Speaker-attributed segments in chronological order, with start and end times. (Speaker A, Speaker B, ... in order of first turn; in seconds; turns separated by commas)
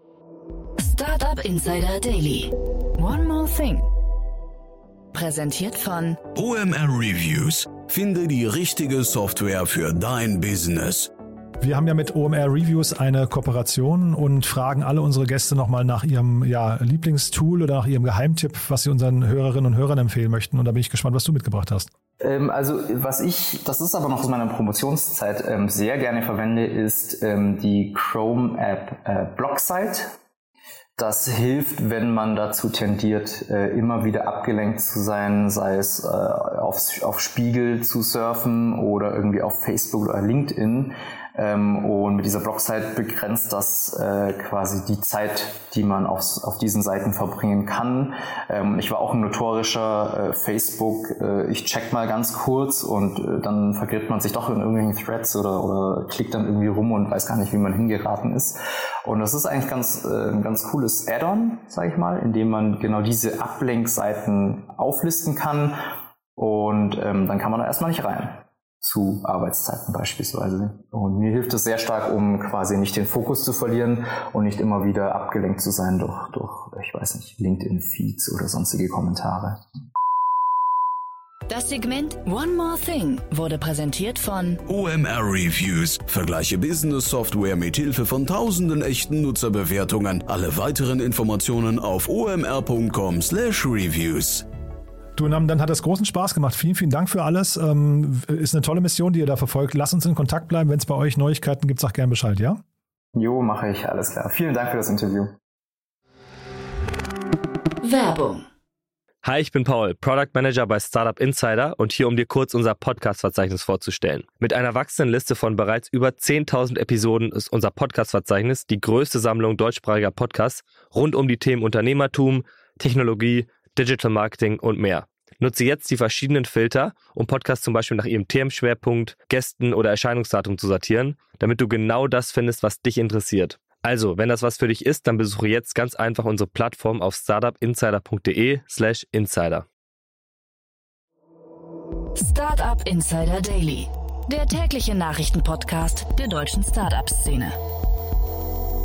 Speaker A: 0.8-3.9, Speaker A: 5.1-6.2, Speaker B: 6.3-11.1, Speaker C: 11.6-21.9, Speaker D: 22.2-30.2, Speaker D: 31.0-65.8, Speaker D: 66.4-79.6, Speaker A: 81.5-84.6, Speaker B: 84.7-94.5, Speaker C: 95.2-102.6, Speaker D: 103.1-105.3, Speaker A: 107.8-108.5, Speaker E: 109.2-139.7, Speaker A: 142.2-147.6